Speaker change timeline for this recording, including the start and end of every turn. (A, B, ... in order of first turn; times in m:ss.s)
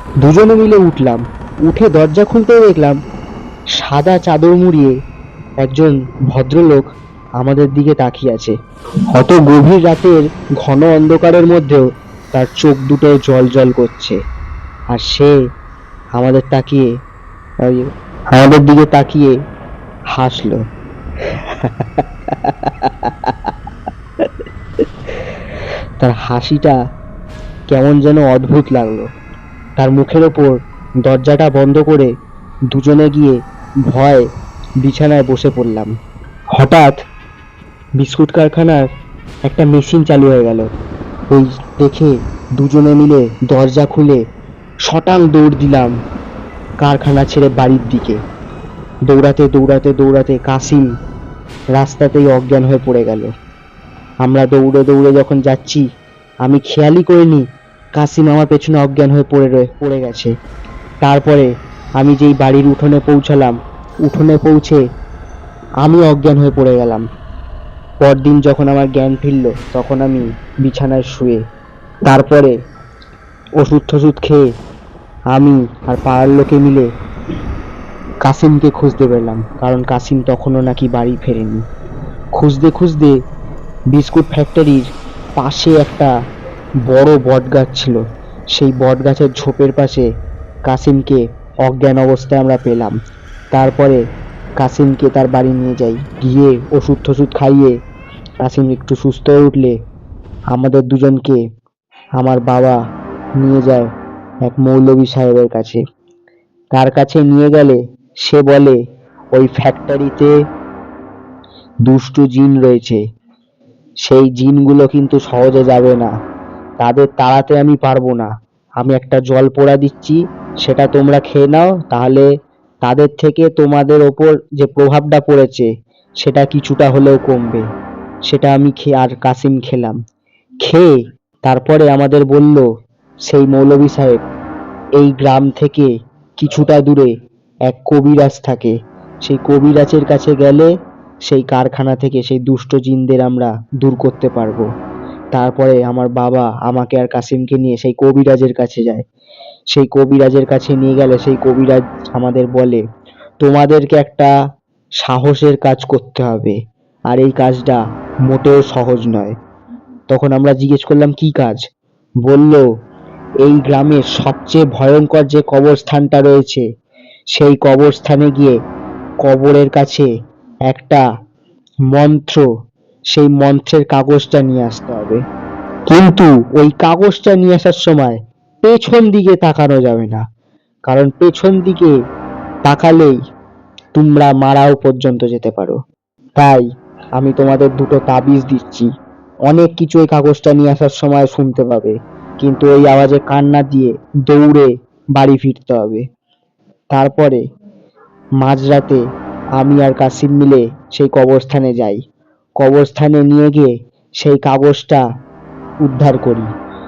0:00.2-0:03.0 A
0:03.8-0:04.9 A
0:05.6-0:06.9 A
0:07.4-0:08.6 A
0:09.1-0:11.8 A
0:12.3-0:14.2 A
0:14.9-0:15.3 A
0:16.2-0:16.9 A
0:17.7-0:19.4 A
0:20.2-0:20.6 A
0:21.6-0:23.5 A
0:26.0-0:26.8 A
0:27.7-0:29.1 A
0:29.8-0:32.1 A
0:32.7-0:33.4 A
0:33.9-0:34.2 A
0:34.8-0:35.9 A
0:36.6-0:37.0 A
0:38.0-0:38.8 A
0:39.5-0:40.7 A
0:41.3-0:44.2 A
0:44.9-0:45.9 A
0:46.8-0:48.2 A
0:49.1-0:50.8 A
0:51.8-0:53.3 A
0:54.2-0:55.8 A
0:56.4-0:57.4 A
0:58.0-1:00.3 A
1:01.0-1:01.5 A
1:02.0-1:03.6 A
1:04.1-1:04.8 A
1:05.8-1:07.0 A
1:08.0-1:11.4 A
1:12.1-1:12.5 A
1:13.6-1:14.4 A
1:15.3-1:16.9 A
1:18.2-1:21.6 A
1:22.4-1:23.1 A
1:23.9-1:24.9 A
1:25.4-1:26.1 A
1:26.9-1:28.0 A
1:28.6-1:30.1 A
1:30.7-1:33.0 A
1:33.5-1:34.0 A
1:34.6-1:37.7 A
1:38.4-1:39.8 A
1:40.5-1:41.4 A
1:42.2-1:42.8 A
1:43.4-1:43.9 A
1:44.5-1:45.8 A
1:46.7-1:48.8 A
1:49.3-1:50.3 A
1:51.9-1:53.0 A
1:54.0-1:56.1 A
1:56.8-1:58.3 A
1:58.8-2:02.3 A
2:02.8-2:05.7 A
2:06.2-2:07.6 A
2:08.3-2:10.0 A
2:10.6-2:10.9 A
2:11.4-2:12.6 A
2:13.3-2:14.2 A
2:15.0-2:17.1 A
2:17.7-2:18.7 A
2:19.2-2:20.7 A
2:21.3-2:24.7 A
2:25.4-2:29.0 A
2:29.7-2:32.8 A
2:33.4-2:34.3 A
2:35.0-2:36.6 A
2:37.1-2:39.3 A
2:40.1-2:41.6 A
2:42.3-2:42.6 A
2:43.4-2:46.6 A
2:47.4-2:48.6 A
2:49.2-2:50.1 A
2:50.7-2:51.0 A
2:51.9-2:52.4 A
2:53.1-2:55.2 A
2:55.9-3:00.2 A
3:00.9-3:01.9 A
3:02.7-3:03.2 A
3:04.0-3:05.8 A
3:06.4-3:06.6 A
3:07.2-3:08.9 A
3:09.5-3:16.0 A
3:16.9-3:17.4 A
3:18.4-3:19.0 A
3:19.6-3:22.0 A
3:22.6-3:25.0 A
3:25.8-3:26.5 A